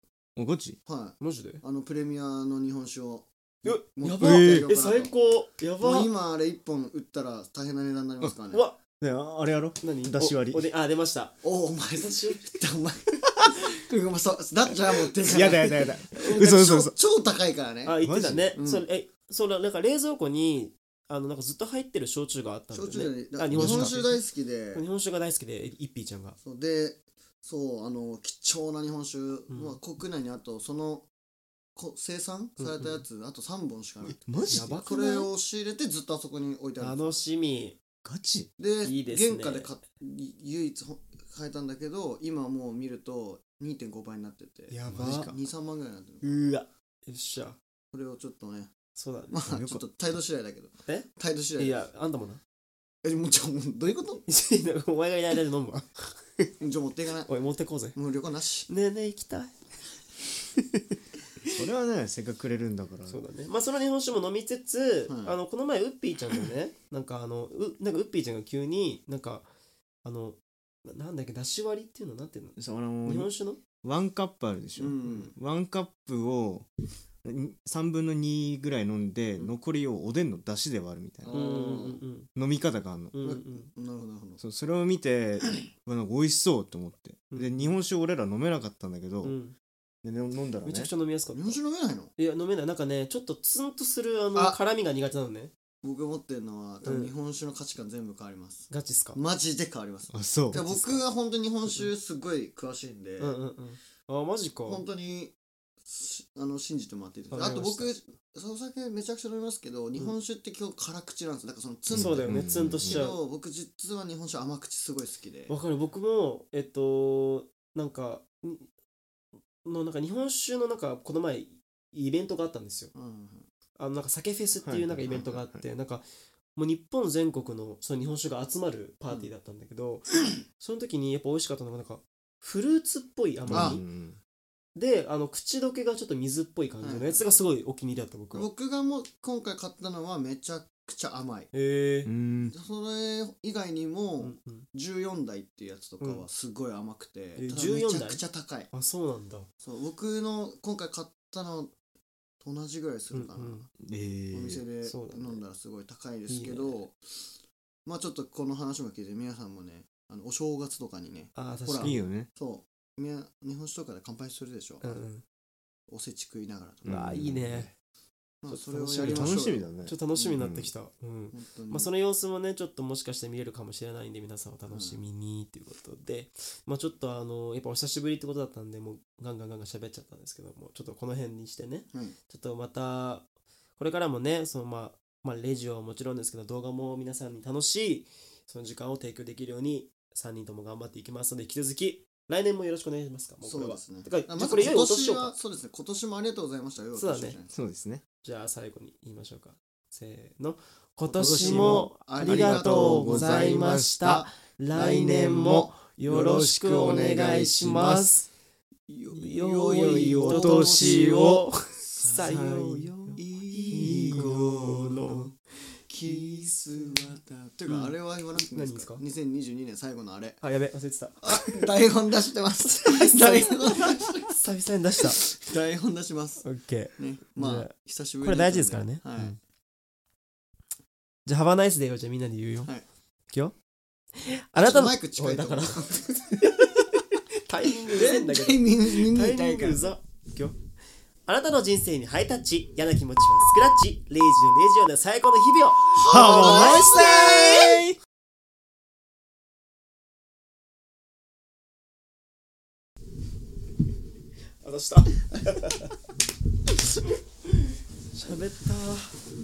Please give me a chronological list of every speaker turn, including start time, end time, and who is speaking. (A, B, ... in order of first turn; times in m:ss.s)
0:00.4-0:00.8 A
0:00.8-0:05.1 B
0:01.2-0:01.6 C
0:03.6-0:06.1 C
0:04.2-0:04.7 A
0:05.8-0:08.6 B
0:08.5-0:08.8 C
0:09.0-0:10.7 A
0:09.8-0:11.4 C
0:11.4-0:18.0 B
0:12.0-0:12.4 C
0:15.2-0:16.9 A
0:17.8-0:24.2 C
0:18.0-0:18.5 A
0:18.6-0:18.8 B
0:22.7-0:24.8 B
0:23.5-0:24.0 A
0:24.7-0:26.4 C
0:26.4-0:31.1 B
0:29.5-0:29.8 C
0:31.8-0:37.2 B
0:32.6-0:33.0 C
0:34.3-0:34.8 A
0:34.5-0:35.3 C
0:36.8-0:37.8 C
0:38.0-0:38.5 A
0:38.6-0:46.4 B
0:38.8-0:39.7 C
0:44.7-0:45.3 C
0:44.9-0:45.3 A
0:46.2-0:47.6 C
0:47.9-0:48.7 B
0:48.9-0:49.4 C
0:49.3-0:51.8 B
0:49.5-0:49.8 A
0:50.9-0:52.4 C
0:53.0-0:54.2 B
0:54.3-0:56.5 C
0:56.6-0:57.3 B
0:57.2-0:58.0 C
0:58.0-0:58.7 B
0:58.7-0:59.5 C
1:00.6-1:01.0 C
1:01.5-1:03.2 A
1:03.1-1:09.5 C
1:05.1-1:05.4 B
1:10.0-1:13.6 C
1:12.6-1:13.3 A
1:13.8-1:16.7 A
1:14.8-1:15.3 B
1:17.2-1:21.3 A
1:21.2-1:22.0 B
1:21.3-1:22.3 C
1:22.4-1:23.2 A
1:23.1-1:23.7 C
1:23.2-1:24.4 B
1:24.4-1:29.4 A
1:27.3-1:27.7 C
1:29.2-1:29.5 C
1:30.0-1:30.9 A
1:30.6-1:31.6 C
1:31.3-1:32.1 B
1:32.2-1:35.5 C
1:35.8-1:43.4 B
1:36.8-1:37.1 C
1:38.7-1:39.2 C
1:40.1-1:40.9 A
1:40.5-1:41.0 C
1:43.2-1:44.8 C
1:44.6-1:55.5 B
1:47.3-1:47.9 C
1:51.9-1:53.2 C
1:51.9-1:53.0 A
1:55.5-1:58.6 C
1:59.6-2:02.9 C
2:02.9-2:03.5 B
2:03.8-2:13.8 C
2:04.6-2:05.6 A
2:13.5-2:14.2 A
2:13.5-2:13.8 B
2:14.8-2:18.5 C
2:16.8-2:17.2 B
2:18.3-2:21.5 B
2:21.5-2:22.1 C
2:22.0-2:22.5 A
2:22.5-2:28.7 B
2:24.2-2:24.6 C
2:26.0-2:26.2 C
2:27.4-2:29.5 C
2:29.6-2:31.7 B
2:32.4-2:33.7 B
2:33.1-2:33.6 C
2:33.8-2:34.6 A
2:34.3-2:37.3 B
2:34.8-2:35.4 C
2:36.3-2:36.8 C
2:37.8-2:44.9 B
2:41.3-2:42.0 C
2:41.8-2:42.3 A
2:44.8-2:45.2 C
2:45.9-2:47.0 B
2:46.8-2:47.7 A
2:46.8-2:47.7 C
2:48.4-2:49.7 B
2:48.5-3:15.4 C
2:49.0-2:50.7 A
2:51.3-2:51.9 B
2:54.7-2:55.0 B
3:13.4-3:17.5 B
3:16.9-3:17.4 C
3:17.5-3:18.0 A
3:18.2-3:28.3 C
3:21.2-3:28.1 A
3:21.2-3:24.1 B
3:28.9-3:31.3 B
3:29.2-3:35.3 C
3:29.7-3:31.5 A
3:31.9-3:32.6 B
3:32.2-3:33.2 A
3:33.2-3:35.2 B
3:33.7-3:35.0 A
3:35.9-3:40.4 B
3:37.7-3:39.0 C
3:40.4-3:41.6 C
3:41.2-3:44.4 B
3:42.6-3:45.2 C
3:45.0-3:49.3 B
3:46.4-3:49.4 C
3:51.2-3:52.7 C
3:54.2-4:00.6 C
3:54.6-3:56.5 B
3:57.7-3:59.9 B
4:01.2-4:07.7 C
4:05.9-4:07.8 B
4:06.0-4:08.0 A
4:14.6-4:15.9 C
4:16.8-4:19.2 C